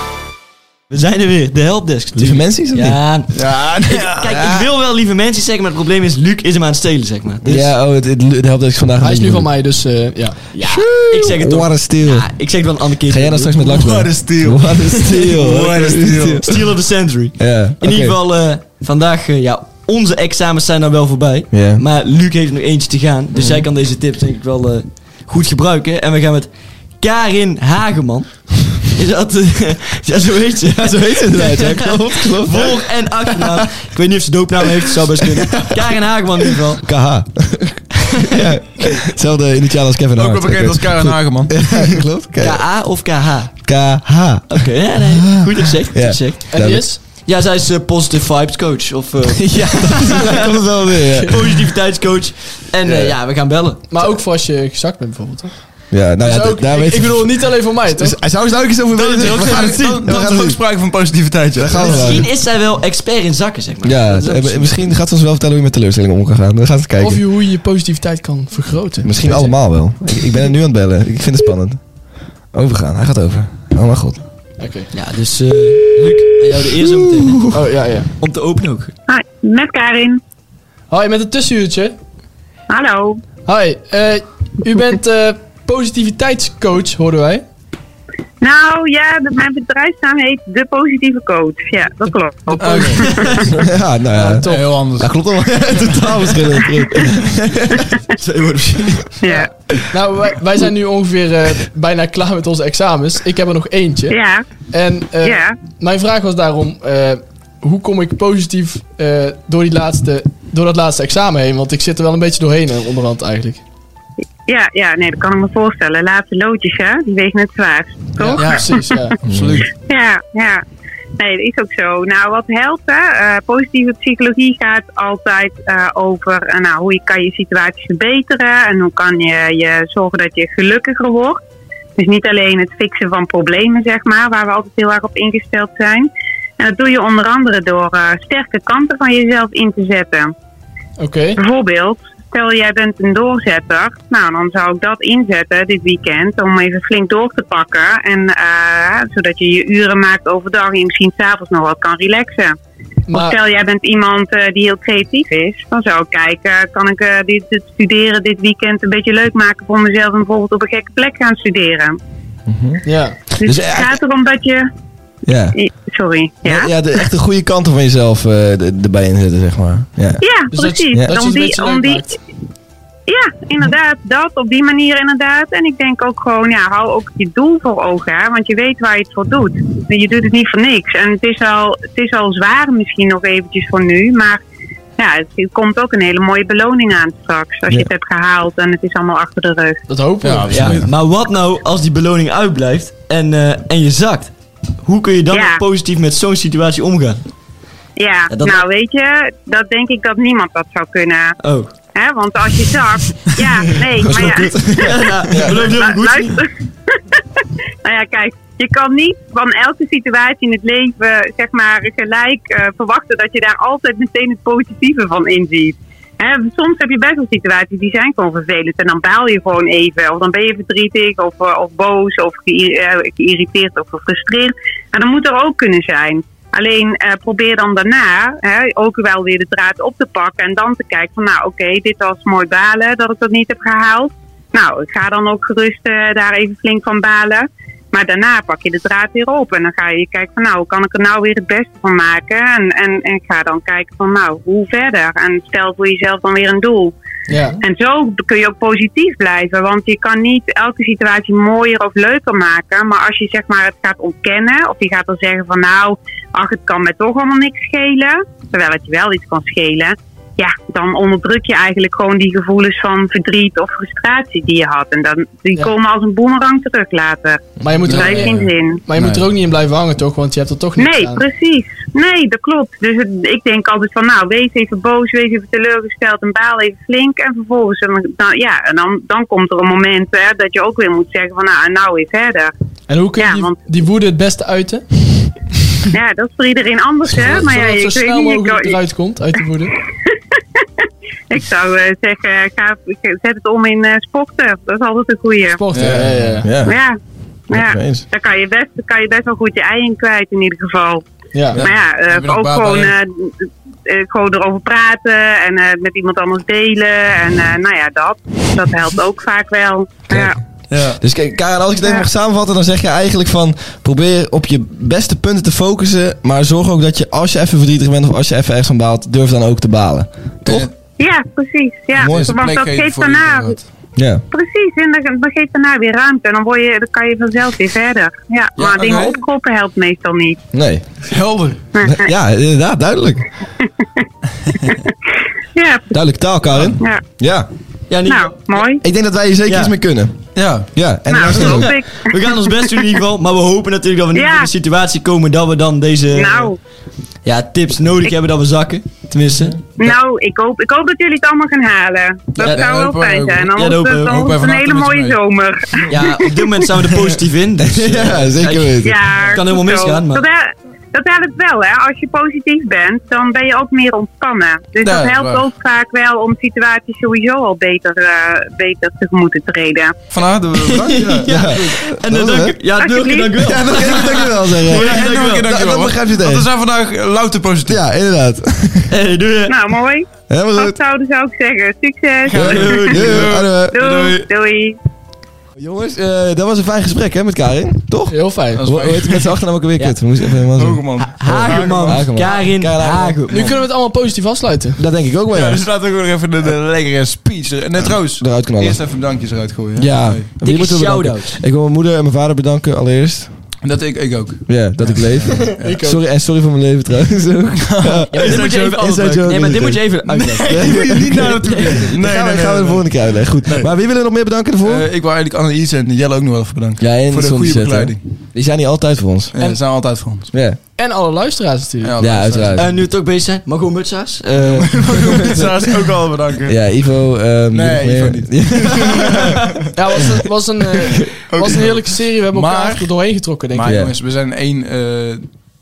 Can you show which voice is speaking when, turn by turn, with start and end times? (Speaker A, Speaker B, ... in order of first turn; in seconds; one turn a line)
Speaker A: 0.9-7.7
Speaker B: 2.1-4.7
Speaker B: 7.4-9.5
Speaker C: 9.0-10.5
Speaker A: 10.5-13.6
Speaker B: 10.6-12.5
Speaker B: 13.1-16.6
Speaker D: 13.6-16.4
Speaker A: 15.8-37.0
Speaker B: 17.4-18.1
Speaker B: 21.5-21.8
Speaker B: 23.3-23.6
Speaker B: 30.9-32.8
Speaker B: 36.8-42.7
Speaker D: 40.2-42.0
Speaker A: 42.4-43.7
Speaker B: 43.6-46.9
Speaker A: 44.5-50.6
Speaker C: 46.5-47.0
Speaker B: 49.5-51.4
Speaker A: 51.3-53.9
Speaker B: 52.8-53.2
Speaker C: 53.9-58.2
Speaker B: 55.9-60.6
Speaker D: 58.9-62.2
Speaker B: 61.5-62.3
Speaker A: 61.7-64.8
Speaker B: 63.8-67.2
Speaker C: 67.0-69.6
Speaker B: 69.0-71.8
Speaker B: 72.5-74.2
Speaker C: 74.6-74.9
Speaker A: 74.9-78.9
Speaker B: 76.8-77.3
Speaker C: 77.5-78.1
Speaker E: 79.1-80.2
Speaker C: 80.9-82.0
Speaker E: 82.7-83.2
Speaker C: 83.5-87.5
Speaker E: 88.4-93.5
Speaker D: 92.6-93.3
Speaker A: 93.0-93.4
Speaker B: 93.6-97.9
Speaker C: 94.1-94.8
Speaker D: 94.5-96.3
Speaker A: 98.2-99.2
Speaker E: 99.2-99.5
Speaker C: 99.9-104.2
Speaker E: 104.1-104.5
Speaker C: 104.7-113.6
Speaker E: 105.2-105.6
Speaker E: 114.5-119.1
Speaker C: 118.2-119.2
Speaker D: 118.4-118.7
Speaker B: 119.2-119.6
Speaker D: 119.3-119.7
Speaker E: 119.8-120.6
Speaker E: 121.2-131.4
Speaker E: 132.0-140.3
Speaker C: 141.0-141.4
Speaker E: 141.4-152.5
Speaker C: 153.1-153.4
Speaker E: 153.1-162.0
Speaker B: 162.5-163.9
Speaker C: 162.8-163.2
Speaker E: 163.4-164.7
Speaker B: 165.3-165.6
Speaker E: 165.5-166.7
Speaker B: 166.4-170.2
Speaker E: 170.2-172.0
Speaker C: 170.5-172.2
Speaker E: 173.1-184.4
Speaker E: 185.0-189.8
Speaker C: 189.9-190.8
Speaker D: 190.2-190.8
Speaker A: 190.5-197.3
Speaker E: 195.3-195.6
Speaker E: 197.9-201.3
Speaker A: 198.3-198.6
Speaker A: 201.4-201.7
Speaker E: 201.9-207.2
Speaker B: 204.0-205.6
Speaker A: 204.1-206.4
Speaker E: 207.8-246.9
Speaker C: 247.3-247.6
Speaker E: 247.6-268.8
Speaker C: 267.6-271.2
Speaker D: 267.8-269.3
Speaker E: 270.8-282.5
Speaker C: 282.9-285.3
Speaker E: 283.2-283.6
Speaker E: 285.9-288.8
Speaker C: 287.1-289.7
Speaker E: 291.3-295.6
Speaker C: 295.5-296.5
Speaker D: 295.7-296.3
Speaker B: 296.4-296.8
Speaker E: 296.6-296.9
Speaker E: 297.5-303.3
Speaker B: 297.5-298.0
Speaker C: 301.3-301.6
Speaker D: 301.5-302.9
Speaker E: 303.9-310.4
Speaker B: 310.1-320.7
Speaker D: 310.7-311.0
Speaker D: 320.4-320.7
Speaker E: 321.0-323.6
Speaker D: 321.9-323.6
Speaker B: 321.9-322.4
Speaker B: 323.9-324.2
Speaker E: 324.3-330.4
Speaker D: 328.6-329.2
Speaker B: 330.5-330.9
Speaker D: 331.0-331.6
Speaker E: 331.8-332.0
Speaker B: 331.8-333.3
Speaker E: 334.6-334.9
Speaker E: 335.5-335.9
Speaker B: 335.9-337.5
Speaker D: 336.5-336.8
Speaker A: 337.9-338.6
Speaker E: 338.1-338.8
Speaker B: 338.8-341.7
Speaker A: 339.5-339.7
Speaker D: 340.3-341.6
Speaker E: 341.1-342.7
Speaker A: 341.9-346.5
Speaker E: 344.1-344.5
Speaker E: 346.1-346.6
Speaker A: 347.2-349.9
Speaker E: 349.8-356.5
Speaker A: 352.4-352.6
Speaker D: 352.4-353.5
Speaker A: 353.5-354.3
Speaker D: 354.1-355.2
Speaker A: 355.9-360.2
Speaker B: 357.6-359.0
Speaker E: 358.8-369.9
Speaker D: 364.8-365.4
Speaker D: 370.1-371.7
Speaker A: 370.5-375.5
Speaker B: 370.9-372.6
Speaker E: 372.8-373.7
Speaker B: 373.4-376.5
Speaker D: 373.9-377.8
Speaker B: 377.6-378.9
Speaker A: 378.9-379.5
Speaker E: 379.5-383.1
Speaker B: 380.3-380.8
Speaker D: 382.3-384.2
Speaker A: 382.3-383.3
Speaker B: 382.3-383.8
Speaker E: 383.7-384.8
Speaker B: 385.6-393.5
Speaker C: 388.1-388.7
Speaker D: 388.6-389.3
Speaker D: 390.5-392.5
Speaker A: 390.9-393.5
Speaker C: 393.3-394.8
Speaker B: 394.8-395.6
Speaker D: 395.3-400.3
Speaker B: 398.2-398.8
Speaker B: 399.8-403.3
Speaker A: 400.4-401.4
Speaker D: 403.6-405.8
Speaker B: 404.5-414.9
Speaker C: 405.4-406.0
Speaker D: 407.6-413.7
Speaker A: 408.1-412.0
Speaker D: 414.6-418.0
Speaker B: 416.8-419.6
Speaker D: 419.3-420.3
Speaker B: 420.3-420.6
Speaker C: 420.7-422.0
Speaker D: 421.8-422.6
Speaker B: 422.0-422.7
Speaker A: 422.6-425.3
Speaker D: 424.3-426.6
Speaker B: 425.2-425.5
Speaker B: 426.5-429.3
Speaker D: 427.5-429.5
Speaker C: 429.7-433.8
Speaker D: 431.3-432.9
Speaker D: 433.5-435.3
Speaker B: 433.6-433.9